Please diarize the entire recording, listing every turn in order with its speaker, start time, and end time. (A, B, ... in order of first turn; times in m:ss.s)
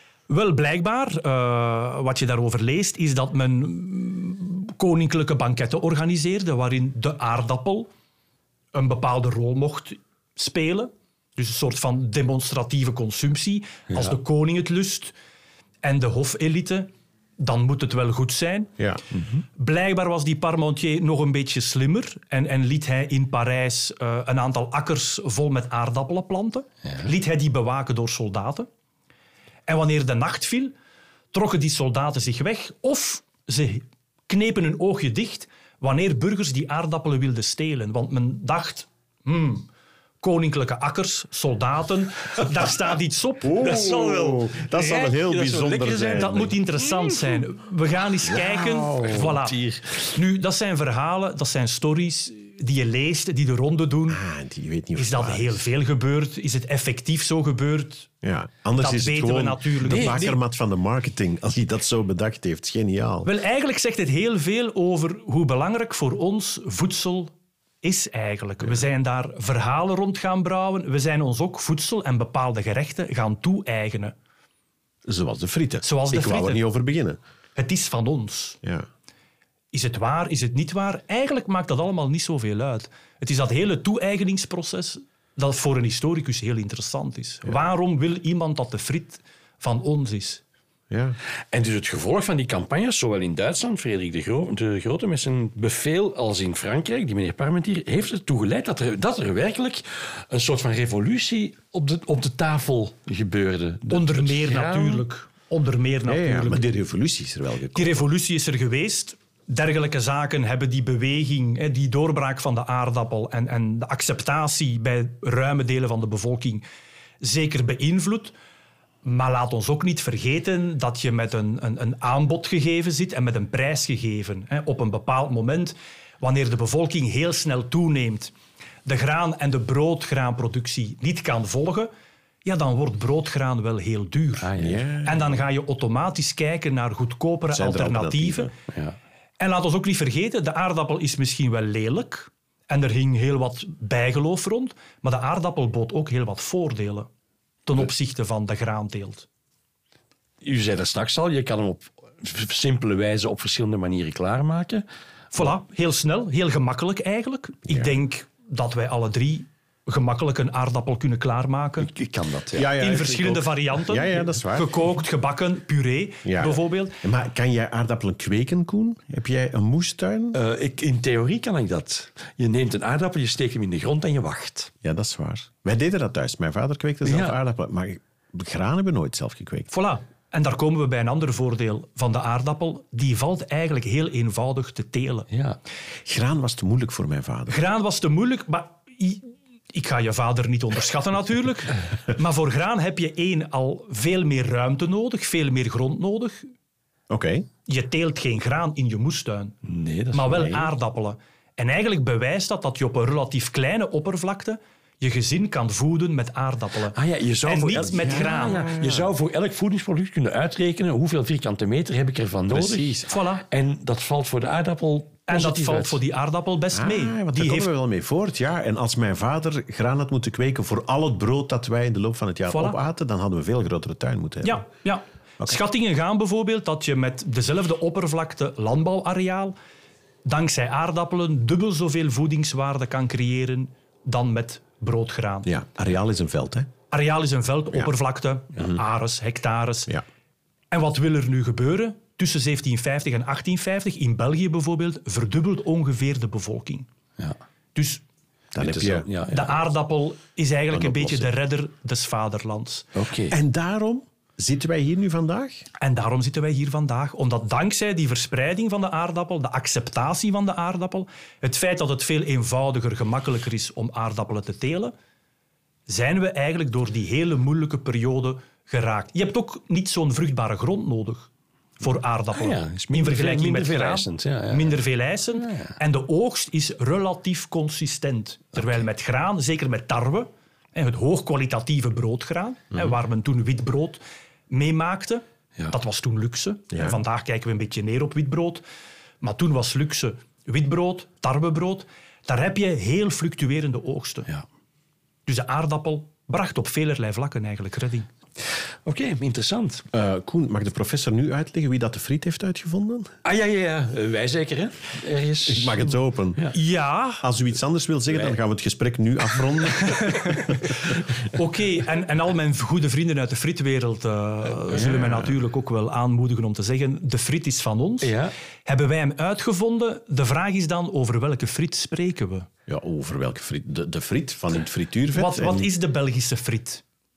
0:00.3-0:07.9 A
0:08.7-0:15.1 A
0:15.8-0:18.7 A
0:19.1-0:19.4 B
0:19.6-0:28.7 A
0:29.7-0:30.7 A
0:31.3-0:39.7 A
0:40.2-0:43.7 A
0:43.4-0:46.5 C
0:43.6-0:47.4 B
0:46.1-0:49.6 A
0:48.3-0:49.3 C
0:48.9-0:50.2 B
0:50.1-0:54.2 A
0:54.1-0:55.6 C
0:55.0-0:58.1 A
0:58.2-1:03.3 C
0:58.8-1:00.4 A
0:59.8-1:00.3 B
1:03.2-1:14.2 A
1:15.0-1:17.2 C
1:15.8-1:16.6 A
1:17.6-1:18.6 A
1:19.7-1:30.4 A
1:30.9-1:31.2 C
1:31.5-1:45.0 B
1:43.9-1:46.6 A
1:46.1-1:48.1 C
1:47.7-1:56.6 A
1:57.2-1:58.4 A
1:59.0-2:08.3 A
2:08.8-2:11.9 A
2:12.4-2:14.5 A
2:14.4-2:14.9 B
2:14.6-2:15.4 C
2:15.0-2:18.5 A
2:17.5-2:18.5 C
2:18.7-2:19.0 B
2:19.4-2:27.1 A
2:27.7-2:29.3 A
2:30.4-2:34.8 B
2:35.3-2:41.9 A
2:37.7-2:38.0 C
2:41.8-2:42.7 B
2:42.5-2:44.8 C
2:42.8-2:47.0 A
2:46.2-2:50.4 C
2:50.3-2:54.7 B
2:54.8-2:59.7 C
2:57.0-2:57.4 B
2:59.7-3:05.3 A
3:05.3-3:05.6 B
3:06.1-3:07.6 C
3:07.5-3:16.5 A
3:17.1-3:17.5 C
3:17.7-3:19.6 A
3:19.6-3:20.6 B
3:20.1-3:28.8 A
3:26.9-3:36.0 B
3:28.0-3:29.1 C
3:32.5-3:33.1 C
3:33.1-3:33.4 A
3:35.3-3:37.7 A
3:36.7-3:44.7 C
3:42.5-3:42.8 A
3:44.4-3:49.6 A
3:50.2-3:55.5 A
3:55.4-3:56.7 C
3:56.9-3:59.9 A
4:00.7-4:06.9 A
4:07.8-4:08.0 A
4:08.5-4:09.1 C
4:08.6-4:09.6 B
4:09.3-4:12.9 A
4:10.7-4:11.3 C
4:13.0-4:13.4 B
4:13.3-4:15.6 C
4:15.8-4:24.9 A
4:25.9-4:48.6 A
4:32.3-4:34.8 B
4:35.4-4:35.8 B
4:46.7-4:47.0 C
4:49.2-4:54.3 A
4:55.3-4:58.1 A
4:58.8-4:59.8 B
4:59.9-5:03.1 C
5:03.2-5:06.5 B
5:05.5-5:06.5 C
5:06.5-5:07.2 A
5:07.2-5:10.5 C
5:09.9-5:10.7 A
5:11.3-5:22.5 A
5:14.7-5:15.3 C
5:18.0-5:18.3 B
5:22.7-5:25.7 C
5:25.1-5:26.8 A